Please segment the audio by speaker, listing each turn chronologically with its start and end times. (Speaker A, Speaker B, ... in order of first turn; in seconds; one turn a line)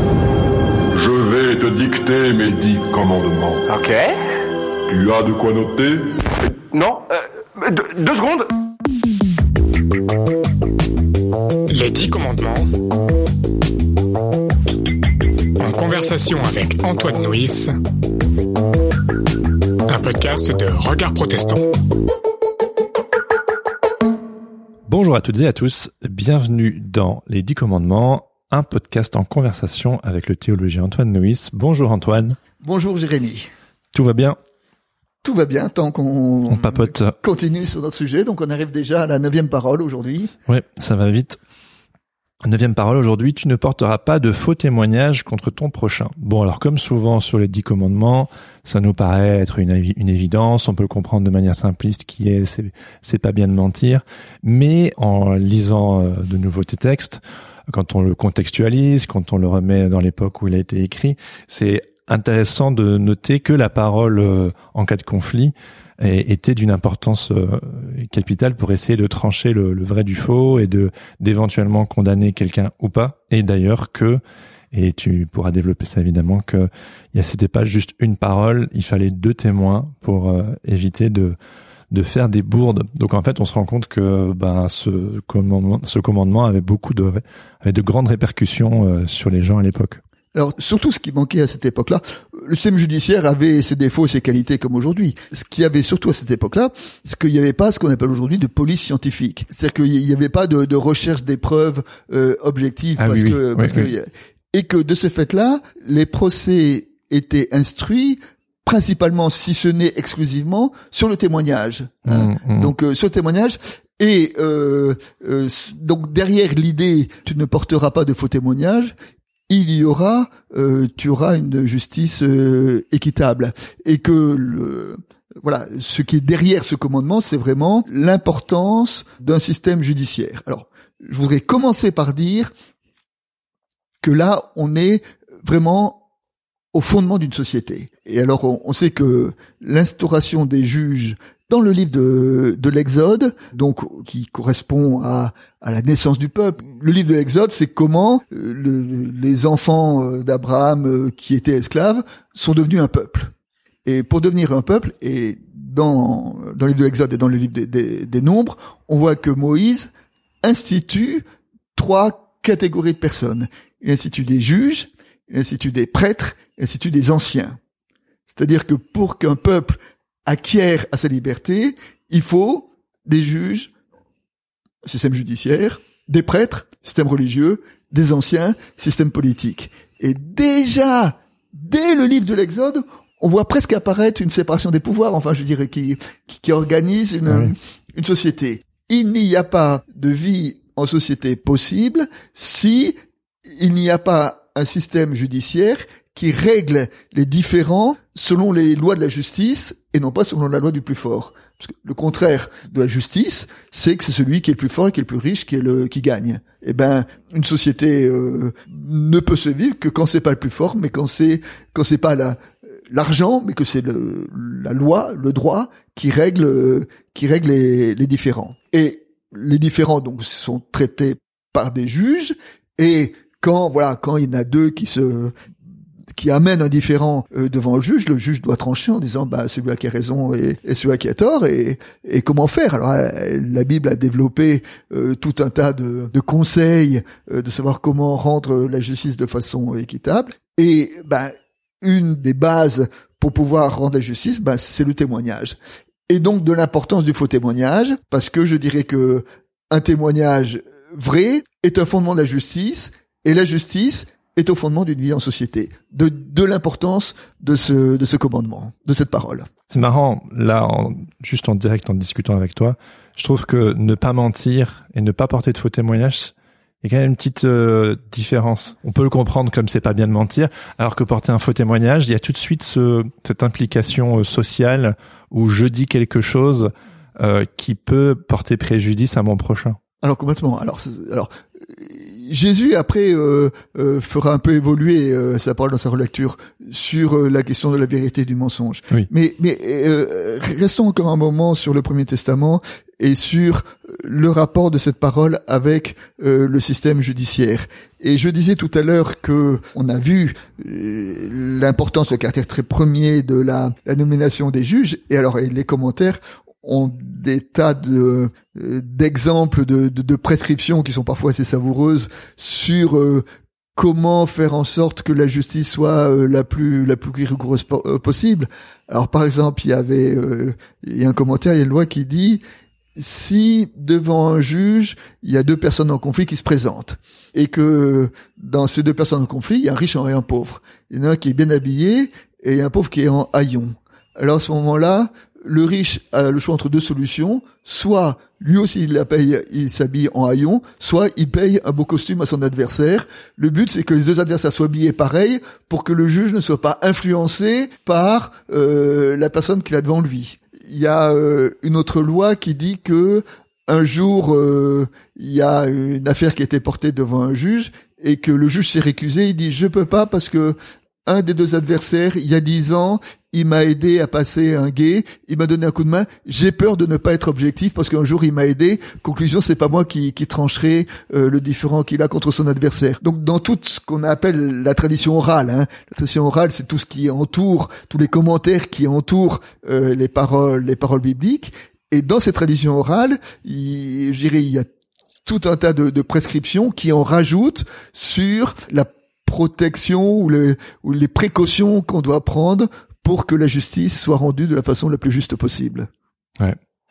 Speaker A: 1.0-3.7
Speaker B: 3.7-4.2
Speaker A: 4.9-6.0
Speaker B: 6.5-8.5
Speaker C: 11.7-12.6
Speaker C: 15.6-17.7
Speaker C: 19.9-21.6
Speaker D: 24.9-32.4
Speaker E: 32.6-33.5
Speaker D: 33.9-34.4
Speaker E: 35.2-40.3
Speaker D: 36.5-37.1
Speaker D: 40.5-41.4
Speaker D: 42.4-74.2
Speaker D: 74.7-81.3
Speaker D: 81.9-90.0
Speaker E: 90.3-118.9
Speaker D: 103.0-103.9
Speaker D: 112.1-112.7
Speaker E: 119.5-132.5
Speaker E: 134.0-136.0
Speaker E: 136.7-153.3
Speaker E: 153.8-159.9
Speaker E: 160.4-161.2
Speaker E: 161.8-167.6
Speaker E: 168.3-173.7
Speaker E: 174.9-193.0
Speaker D: 187.3-187.5
Speaker E: 193.6-225.3
Speaker E: 226.2-245.6
Speaker E: 246.1-259.5
Speaker D: 259.7-279.8
Speaker E: 280.0-313.2
Speaker E: 313.8-322.4
Speaker E: 323.0-360.6
Speaker E: 361.1-384.7
Speaker E: 385.3-395.9